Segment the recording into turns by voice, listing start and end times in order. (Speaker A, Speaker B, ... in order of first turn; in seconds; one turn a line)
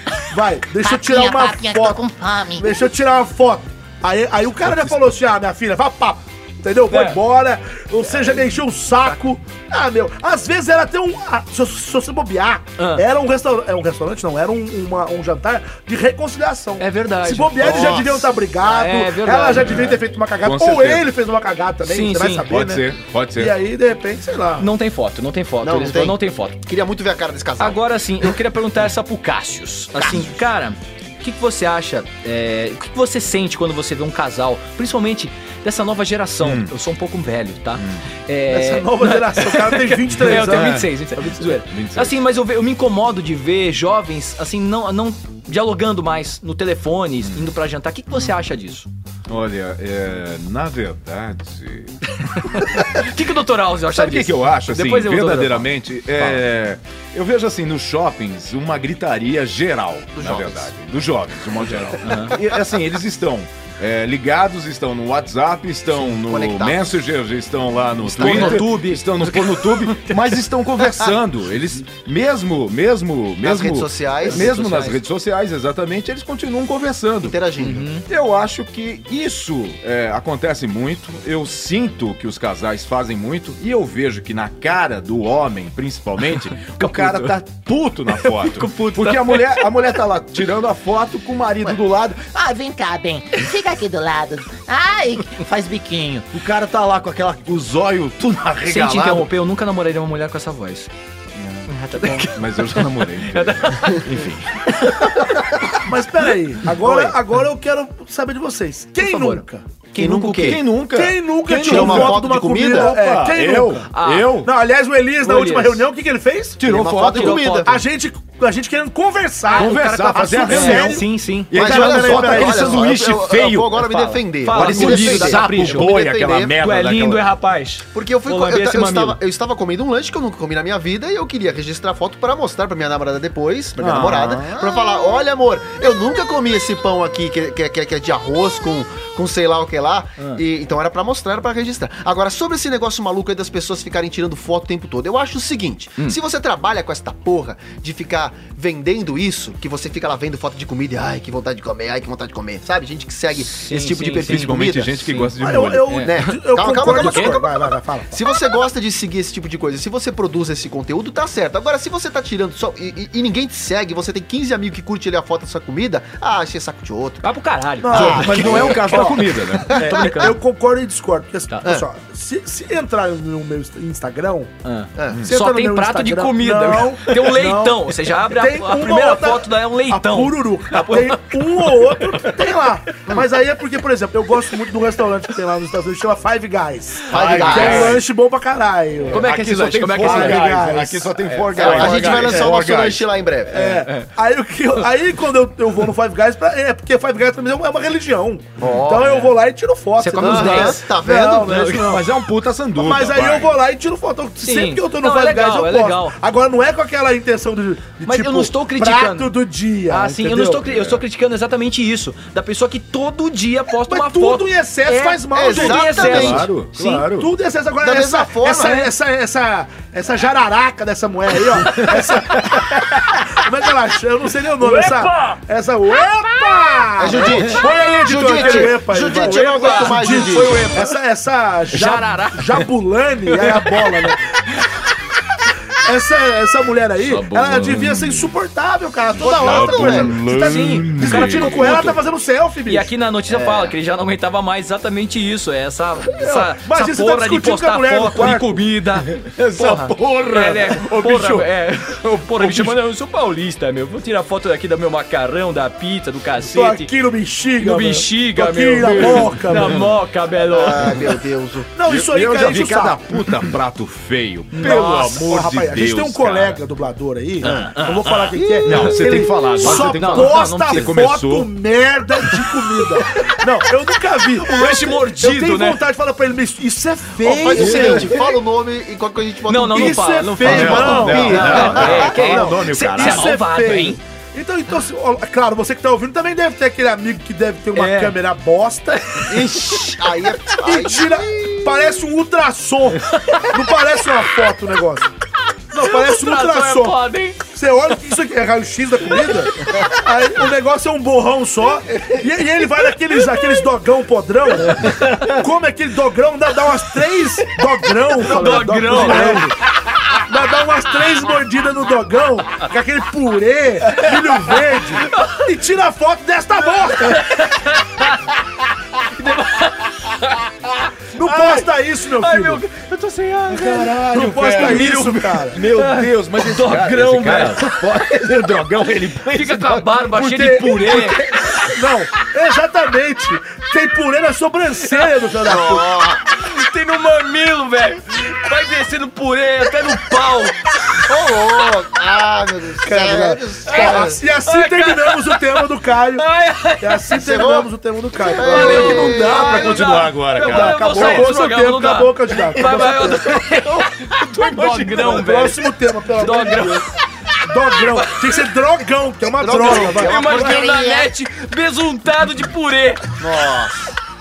Speaker A: 0.3-22.9
Speaker B: 0.8-2.8
Speaker C: 6.9-7.2
Speaker C: 8.1-8.4
Speaker C: 12.8-13.0
Speaker C: 16.8-18.0
Speaker D: 17.6-18.3
Speaker C: 18.6-20.0
Speaker E: 19.6-19.9
Speaker E: 20.4-21.1
Speaker C: 21.9-22.5
Speaker E: 22.5-23.6
Speaker A: 23.4-24.7
Speaker C: 24.6-26.6
Speaker D: 25.6-28.4
Speaker C: 27.6-48.9
Speaker E: 36.4-36.7
Speaker A: 38.5-41.6
Speaker E: 40.3-40.9
Speaker E: 41.7-42.2
Speaker E: 49.3-53.0
Speaker C: 52.4-56.4
Speaker E: 53.9-77.4
Speaker D: 60.2-60.7
Speaker C: 62.0-62.4
Speaker D: 66.3-67.0
Speaker C: 68.1-70.2
Speaker D: 68.2-68.6
Speaker D: 73.4-74.6
Speaker C: 74.3-75.0
Speaker D: 77.2-77.9
Speaker C: 77.6-78.1
Speaker E: 78.1-92.3
Speaker C: 86.8-87.4
Speaker C: 88.1-89.8
Speaker B: 92.3-96.5
Speaker E: 96.3-99.3
Speaker C: 98.7-100.9
Speaker E: 101.4-105.4
Speaker C: 101.7-105.8
Speaker A: 105.8-109.6
Speaker C: 106.7-107.2
Speaker C: 109.0-110.6
Speaker D: 110.0-110.6
Speaker E: 110.2-114.5
Speaker A: 110.9-113.9
Speaker D: 111.5-112.9
Speaker C: 113.9-114.4
Speaker A: 114.4-116.6
Speaker C: 115.2-115.9
Speaker E: 116.6-117.5
Speaker D: 116.6-117.8
Speaker C: 117.0-117.8
Speaker A: 117.6-122.9
Speaker C: 119.5-121.6
Speaker E: 119.5-124.0
Speaker D: 121.5-126.6
Speaker C: 123.8-126.0
Speaker E: 124.5-127.3
Speaker C: 126.6-129.2
Speaker D: 127.9-154.9
Speaker E: 133.8-134.9
Speaker C: 153.4-155.3
Speaker E: 154.2-155.9
Speaker A: 155.4-158.2
Speaker C: 155.9-156.2
Speaker D: 156.0-167.2
Speaker C: 156.8-157.4
Speaker C: 167.2-170.4
Speaker A: 167.8-169.2
Speaker D: 167.9-169.2
Speaker E: 167.9-170.0
Speaker D: 169.7-170.4
Speaker A: 169.7-174.5
Speaker C: 174.6-182.5
Speaker D: 175.0-175.2
Speaker A: 175.2-189.3
Speaker D: 187.1-188.0
Speaker E: 187.1-188.0
Speaker C: 187.4-188.0
Speaker E: 189.1-193.1
Speaker C: 189.1-190.6
Speaker A: 189.9-192.5
Speaker C: 191.2-192.5
Speaker D: 191.5-193.7
Speaker A: 193.5-202.1
Speaker C: 193.5-194.1
Speaker D: 198.6-199.3
Speaker C: 199.0-199.3
Speaker C: 200.0-200.8
Speaker D: 200.2-201.7
Speaker C: 201.4-202.0
Speaker E: 201.8-203.6
Speaker A: 202.8-210.7
Speaker C: 204.4-206.2
Speaker C: 208.1-209.3
Speaker C: 209.9-217.1
Speaker E: 210.7-211.0
Speaker A: 213.9-216.4
Speaker D: 215.3-216.5
Speaker E: 216.1-217.3
Speaker A: 217.0-234.2
Speaker D: 217.8-218.8
Speaker C: 218.5-218.9
Speaker E: 221.6-223.2
Speaker E: 224.7-225.0
Speaker D: 227.0-230.7
Speaker C: 227.2-227.5
Speaker C: 228.2-230.8
Speaker E: 230.2-230.8
Speaker C: 231.7-232.7
Speaker C: 233.3-234.1
Speaker A: 235.8-242.9
Speaker E: 237.0-238.3
Speaker D: 239.2-240.2
Speaker E: 239.2-241.9
Speaker C: 240.2-242.0
Speaker C: 242.7-256.9
Speaker A: 246.1-248.6
Speaker E: 249.1-251.5
Speaker E: 252.1-252.8
Speaker A: 256.4-259.9
Speaker C: 257.6-261.0
Speaker E: 258.8-259.9
Speaker D: 260.5-261.7
Speaker A: 261.8-263.0
Speaker E: 261.9-266.6
Speaker C: 264.5-265.2
Speaker A: 264.6-278.3
Speaker D: 267.4-267.7
Speaker C: 267.4-268.9
Speaker D: 268.3-268.9
Speaker E: 268.6-271.5
Speaker C: 269.6-271.0
Speaker C: 274.3-275.8
Speaker D: 277.2-282.5
Speaker E: 277.5-278.2
Speaker C: 279.5-284.0
Speaker A: 279.7-289.2
Speaker E: 280.4-283.4
Speaker C: 287.7-288.2
Speaker C: 289.0-290.0
Speaker D: 289.3-292.0
Speaker A: 290.6-295.1
Speaker C: 293.1-293.6
Speaker A: 295.7-309.6
Speaker C: 295.8-297.4
Speaker C: 304.7-305.4
Speaker C: 308.1-309.5
Speaker E: 308.9-309.4
Speaker A: 310.3-317.5
Speaker C: 313.9-314.5
Speaker C: 315.1-315.4
Speaker C: 317.0-318.4
Speaker C: 319.0-320.7
Speaker A: 321.1-322.6
Speaker C: 321.2-327.9
Speaker E: 323.5-330.1
Speaker A: 324.1-325.6
Speaker C: 329.3-331.7
Speaker A: 330.1-335.9
Speaker D: 335.4-336.2
Speaker C: 336.3-340.7
Speaker D: 341.1-344.2
Speaker A: 342.8-346.3
Speaker C: 343.7-347.2
Speaker A: 346.8-353.3
Speaker D: 347.1-349.8
Speaker C: 348.3-355.6
Speaker E: 348.6-351.3
Speaker E: 352.6-355.5
Speaker A: 354.9-356.9
Speaker C: 356.1-356.9
Speaker A: 357.4-360.6
Speaker C: 357.7-358.4
Speaker D: 359.3-361.1
Speaker C: 359.5-363.1
Speaker D: 363.2-363.8